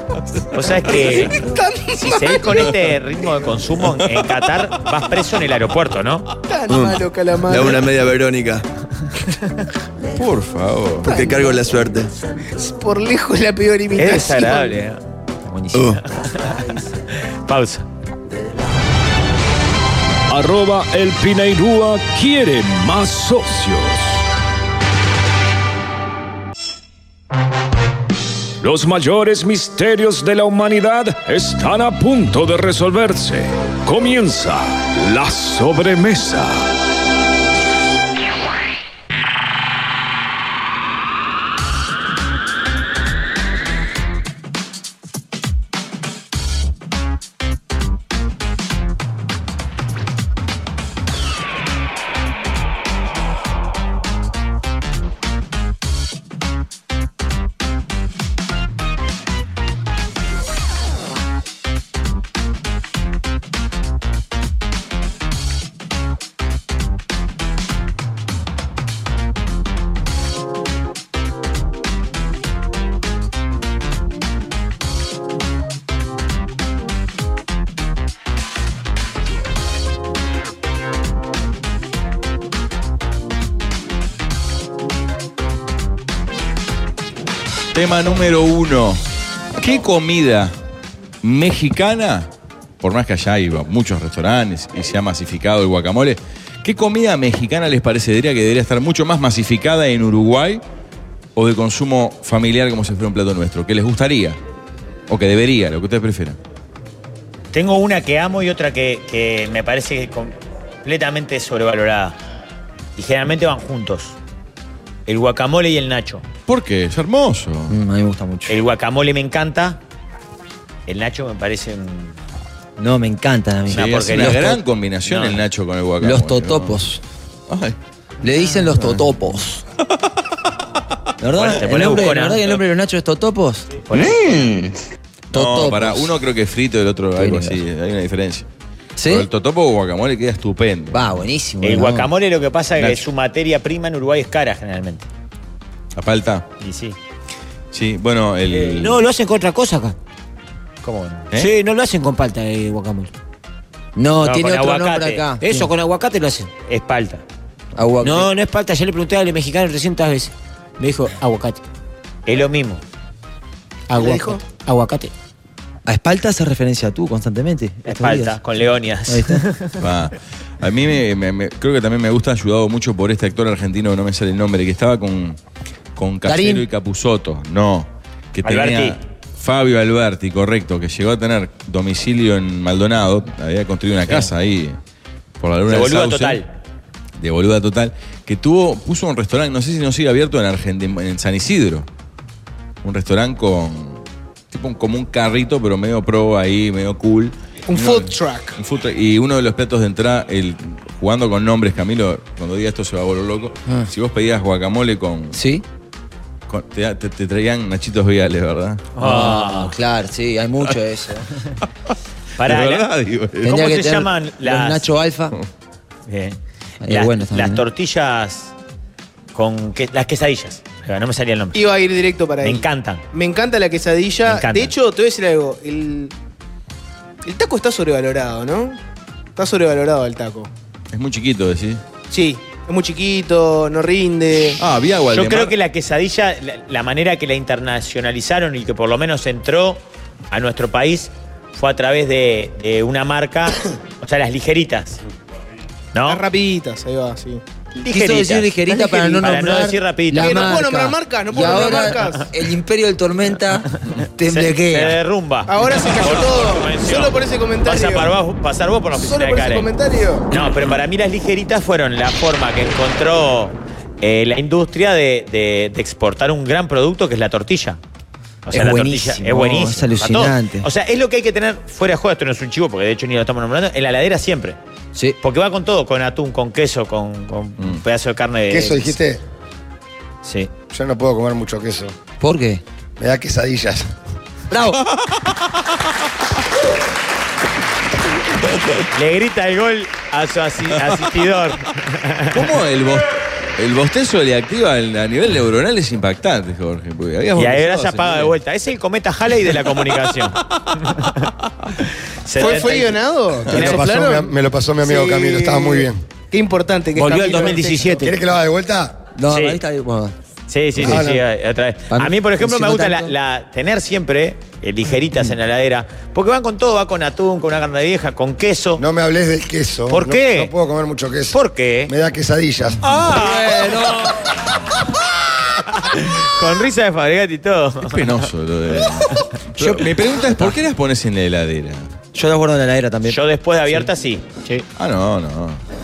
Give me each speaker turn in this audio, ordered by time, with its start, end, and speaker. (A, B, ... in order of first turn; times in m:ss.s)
0:00.5-0:06.3 A
0:01.4-0:02.6 B
0:06.5-0:07.9 B
0:06.7-0:08.6 C
0:10.1-0:11.1 D
0:11.0-0:12.1 C
0:11.1-0:11.4 B
0:12.5-0:14.7 B
0:14.0-0:15.0 A
0:15.4-0:15.9 E
0:15.7-0:16.0 C
0:16.0-0:17.9 A
0:20.3-0:24.2 F
0:28.6-0:36.7 F
1:27.7-1:29.0 D
1:29.6-1:30.6 D
1:31.2-1:32.3 D
1:32.8-1:40.6 D
1:41.4-1:44.4 D
1:45.1-1:46.4 D
1:47.5-1:52.2 A
1:53.0-1:54.2 A
1:55.1-1:56.2 A
1:56.4-1:57.8 D
1:57.7-1:58.6 E
1:58.5-1:59.8 A
2:00.9-2:02.2 A
2:02.8-2:04.6 E
2:03.7-2:04.5 A
2:03.7-2:06.8 D
2:05.0-2:05.4 A
2:06.0-2:07.0 E
2:07.5-2:07.8 D
2:08.2-2:09.6 E
2:08.7-2:09.1 D
2:11.2-2:13.7 E
2:11.3-2:12.6 A
2:13.8-2:14.7 A
2:15.3-2:18.4 D
2:15.3-2:16.1 E
2:17.2-2:17.6 E
2:19.0-2:19.3 E
2:19.0-2:21.2 D
2:20.9-2:22.1 E
2:21.6-2:25.1 A
2:22.8-2:23.0 D
2:26.0-2:26.4 D
2:26.6-2:27.0 A
2:27.7-2:29.0 D
2:28.6-2:30.0 G
2:30.8-2:31.3 A
2:31.3-2:33.1 G
2:34.0-2:35.7 E
2:34.2-2:35.2 A
2:35.4-2:36.5 G
2:36.7-2:37.2 A
2:37.7-2:38.3 E
2:38.0-2:41.6 G
2:42.3-2:42.8 A
2:43.9-2:45.1 G
2:44.0-2:44.4 B
2:45.9-2:48.4 E
2:47.8-2:49.7 A
2:49.1-2:49.4 E
2:49.8-2:55.4 D
2:56.0-3:04.8 D
2:56.2-2:56.7 E
2:58.4-2:59.0 A
3:05.4-3:06.4 D
3:05.7-3:06.5 A
3:07.2-3:11.9 D
3:12.8-3:25.4 D
3:17.7-3:18.6 B
3:25.3-3:25.6 E
3:26.5-3:28.9 D
3:29.0-3:29.8 A
3:29.0-3:31.3 E
3:32.4-3:32.9 A
3:32.4-3:33.6 D
3:33.4-3:34.9 A
3:33.4-3:35.3 E
3:36.1-3:38.5 A
3:36.8-3:37.6 E
3:39.3-3:41.6 A
3:41.5-3:46.1 B
3:42.4-3:43.0 A
3:44.2-3:44.7 A
3:47.2-3:48.8 B
3:49.4-3:50.5 B
3:50.9-3:51.8 D
3:52.1-3:54.6 B
3:54.6-3:55.5 D
3:55.1-4:05.0 A
4:05.9-4:06.2 A
4:06.0-4:07.4 B
4:07.8-4:10.5 A
4:07.9-4:15.0 E
4:10.1-4:12.3 B
4:14.3-4:19.7 A
4:15.5-4:18.1 B
4:19.0-4:20.3 B
4:20.3-4:27.8 A
4:28.4-4:34.6 A
4:28.5-4:30.7 E
4:35.2-4:39.0 A
4:38.5-4:39.2 H
4:40.2-4:40.5 A
4:40.7-4:42.0 H
4:42.2-4:42.6 E
4:43.0-4:43.9 H
4:44.5-4:44.8 E
4:48.9-4:52.4 A
4:52.3-4:58.3 D
4:57.4-5:01.3 A
5:02.2-5:03.0 A
5:02.3-5:08.1 B
5:03.5-5:06.0 H
5:07.0-5:08.1 G
5:08.0-5:09.1 H
5:09.1-5:10.1 E
5:09.3-5:09.6 A
5:10.5-5:18.8 A
5:10.8-5:11.2 H
5:11.9-5:13.1 E
5:18.8-5:22.9 H
5:19.9-5:20.5 A
5:21.3-5:21.9 A
5:22.8-5:24.1 A
5:23.0-5:24.1 E
5:25.7-5:28.2 A
5:27.9-5:31.9 D
5:29.6-5:30.5 E
5:32.1-5:33.2 E
5:33.0-5:34.2 A
5:34.8-5:35.6 D